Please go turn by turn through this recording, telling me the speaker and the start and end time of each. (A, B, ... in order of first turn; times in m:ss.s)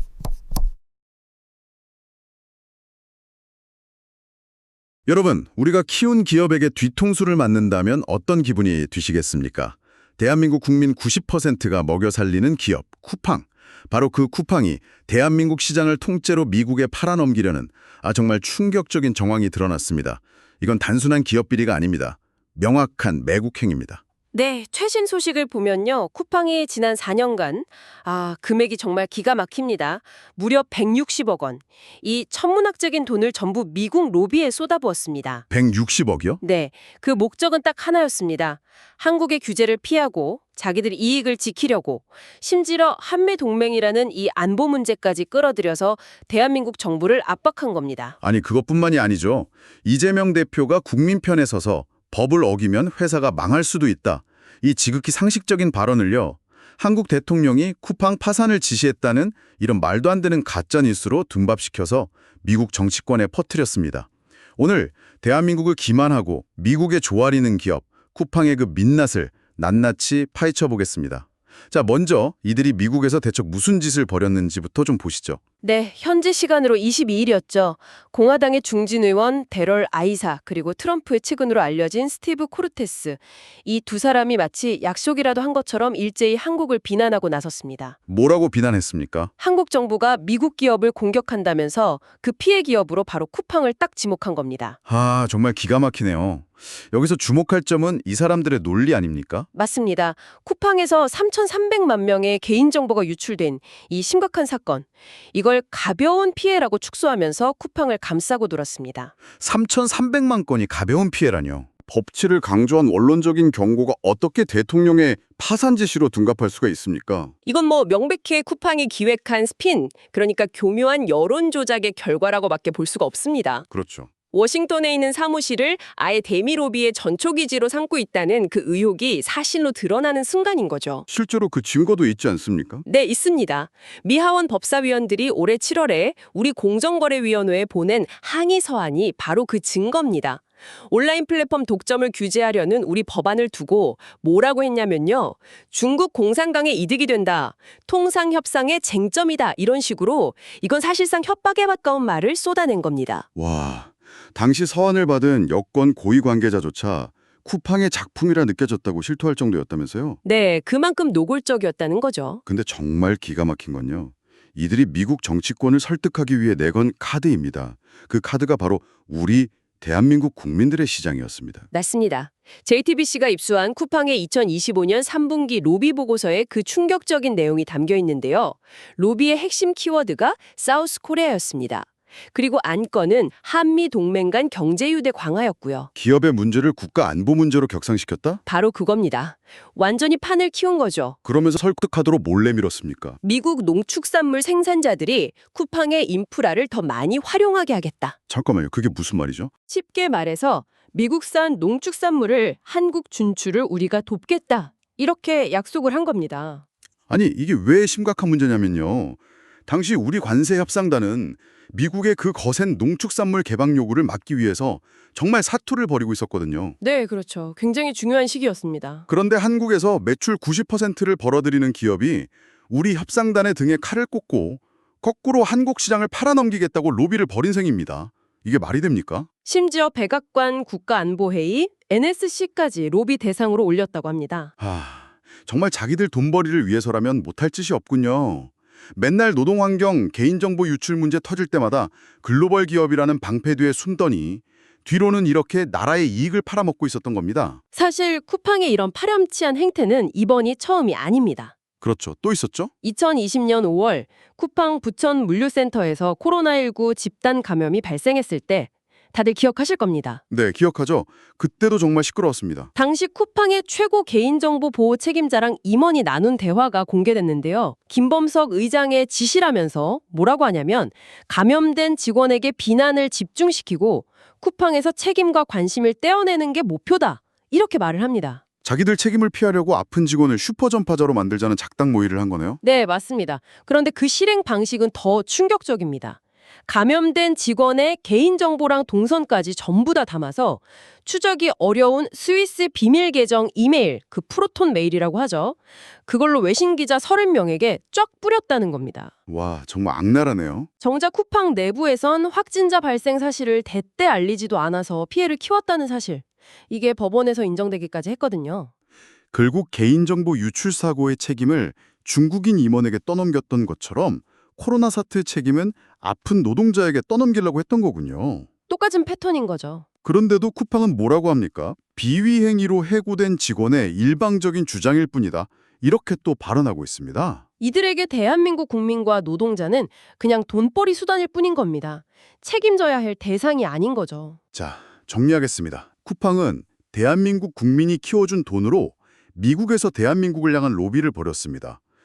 0:05.1-0:24.0 A
0:24.3-0:35.4 B
0:35.5-0:36.4 A
0:36.4-0:48.2 B
0:48.2-1:15.4 A
1:15.6-1:28.0 B
1:28.1-1:29.3 A
1:29.4-1:34.8 B
1:34.9-1:39.5 A
1:39.5-1:49.1 B
1:49.4-1:57.3 A
1:57.4-2:03.7 B
2:03.7-2:04.1 A
2:04.3-2:11.1 B
2:11.1-2:12.8 A
2:12.8-2:33.3 B
2:33.3-2:40.2 A
2:40.2-2:42.4 B
2:42.4-2:51.7 A
2:51.7-3:05.9 B
3:06.0-3:08.4 A
3:08.4-3:11.2 B
3:11.2-3:13.2 A
3:13.2-3:18.2 B
3:18.3-3:19.5 A
3:19.7-3:26.6 B
3:27.1-3:36.8 A
3:36.8-3:39.1 B
3:39.1-3:49.3 A
3:49.4-3:54.5 B
3:54.6-4:07.6 A
4:07.7-4:11.5 B
4:11.8-4:12.7 A
4:12.8-4:20.2 B
4:20.3-4:22.7 A
4:22.7-4:38.4 B
4:38.6-4:42.6 A
4:42.6-4:59.1 B
4:59.3-5:00.7 A
5:00.8-5:08.7 B
5:09.3-5:18.5 A
5:18.7-5:19.8 B
5:20.0-5:27.4 A
5:27.6-5:34.4 B
5:34.5-5:41.8 A